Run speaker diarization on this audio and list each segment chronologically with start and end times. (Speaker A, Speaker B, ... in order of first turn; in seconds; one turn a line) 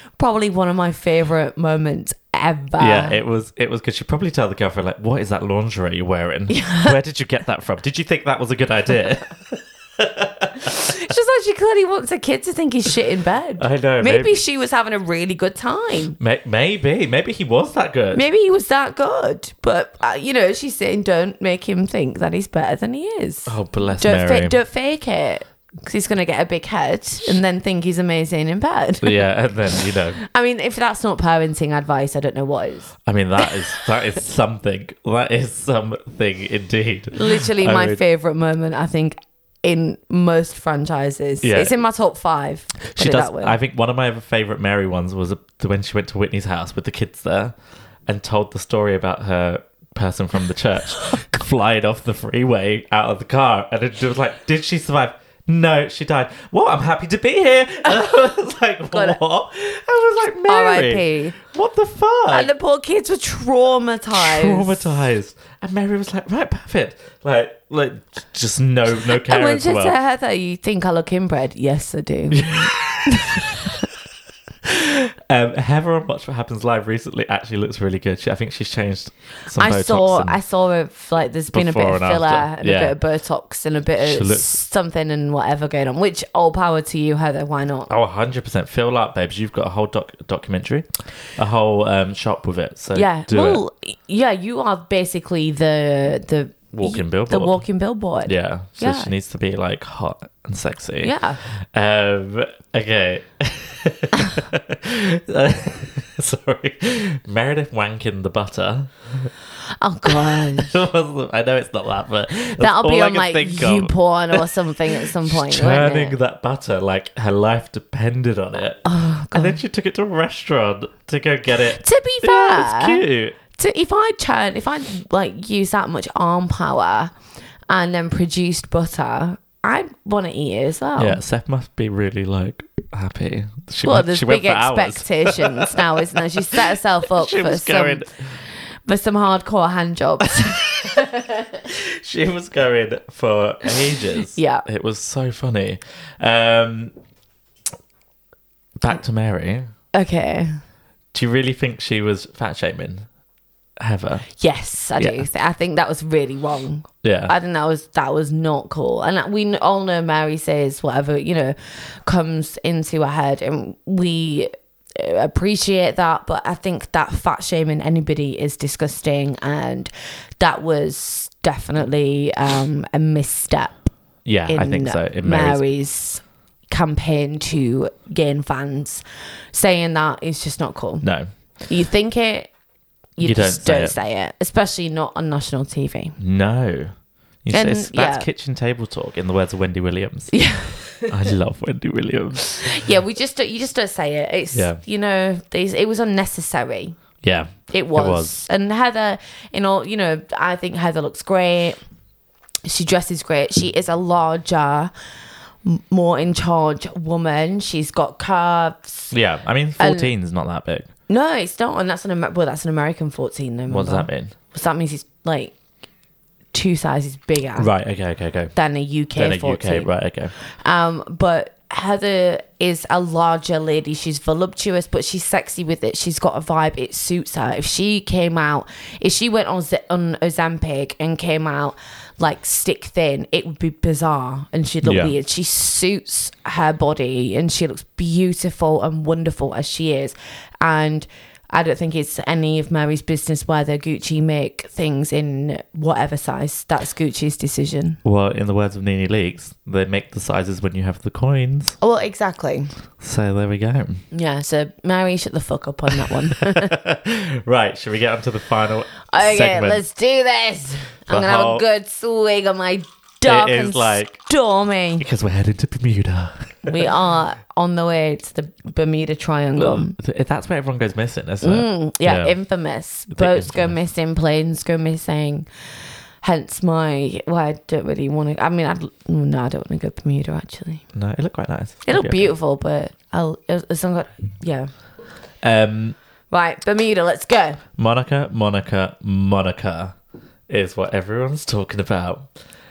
Speaker A: 0.2-3.2
Speaker B: 2.8-10.8
Speaker A: 6.5-7.0
Speaker A: 10.6-16.2
Speaker B: 13.6-14.4
Speaker B: 16.2-18.2
Speaker A: 18.1-33.6
Speaker B: 23.5-24.6
Speaker B: 29.0-30.2
Speaker B: 33.0-38.0
Speaker A: 37.1-43.5
Speaker B: 41.4-41.7
Speaker B: 42.9-47.5
Speaker B: 48.1-62.5
Speaker A: 58.9-59.2
Speaker A: 60.5-61.4
Speaker A: 62.3-64.9
Speaker B: 64.1-69.9
Speaker A: 69.1-73.8
Speaker B: 72.3-73.8
Speaker B: 74.6-80.4
Speaker A: 79.5-87.9
Speaker B: 81.5-82.9
Speaker B: 84.0-84.6
Speaker B: 87.9-93.6
Speaker A: 92.9-99.1
Speaker B: 96.7-97.6
Speaker B: 98.2-109.3
Speaker A: 101.0-101.4
Speaker A: 109.8-110.7
Speaker B: 110.0-123.4
Speaker A: 112.6-116.2
Speaker A: 118.8-119.6
Speaker A: 121.7-127.1
Speaker A: 127.7-131.2
Speaker B: 131.0-138.2
Speaker A: 133.8-138.1
Speaker A: 138.8-141.5
Speaker B: 141.6-146.9
Speaker A: 144.3-144.6
Speaker B: 148.8-149.7
Speaker A: 149.9-150.6
Speaker B: 151.1-153.1
Speaker B: 153.8-154.2
Speaker A: 154.4-173.8
Speaker B: 157.0-157.3
Speaker B: 174.2-175.6
Speaker A: 174.5-181.1
Speaker B: 181.0-181.3
Speaker A: 181.7-182.5
Speaker A: 183.2-186.2
Speaker B: 183.2-183.9
Speaker B: 186.2-186.9
Speaker B: 187.4-190.4
Speaker A: 187.5-188.3
Speaker A: 190.3-191.1
Speaker B: 191.0-192.9
Speaker A: 192.4-196.9
Speaker B: 194.5-194.8
Speaker B: 197.2-198.4
Speaker A: 197.7-201.8
Speaker A: 202.6-204.9
Speaker A: 205.6-209.1
Speaker B: 209.1-210.9
Speaker A: 209.8-210.1
Speaker A: 211.1-215.5
Speaker B: 213.7-214.3
Speaker A: 216.5-217.7
Speaker B: 217.6-218.5
Speaker A: 218.5-248.0
Speaker B: 219.2-220.3
Speaker B: 234.8-235.1
Speaker B: 248.0-251.8
Speaker A: 251.8-252.7
Speaker B: 253.0-254.0
Speaker A: 254.1-256.7
Speaker B: 256.4-259.8
Speaker A: 259.1-265.1
Speaker B: 261.1-261.6
Speaker B: 263.2-264.2
Speaker B: 265.0-266.9
Speaker A: 266.6-269.9
Speaker B: 269.6-272.3
Speaker A: 271.4-275.4
Speaker B: 273.1-273.8
Speaker A: 276.2-280.8
Speaker B: 280.9-282.3
Speaker A: 281.9-284.7
Speaker B: 285.4-285.9
Speaker A: 286.3-287.6
Speaker B: 287.8-289.9
Speaker B: 290.5-292.3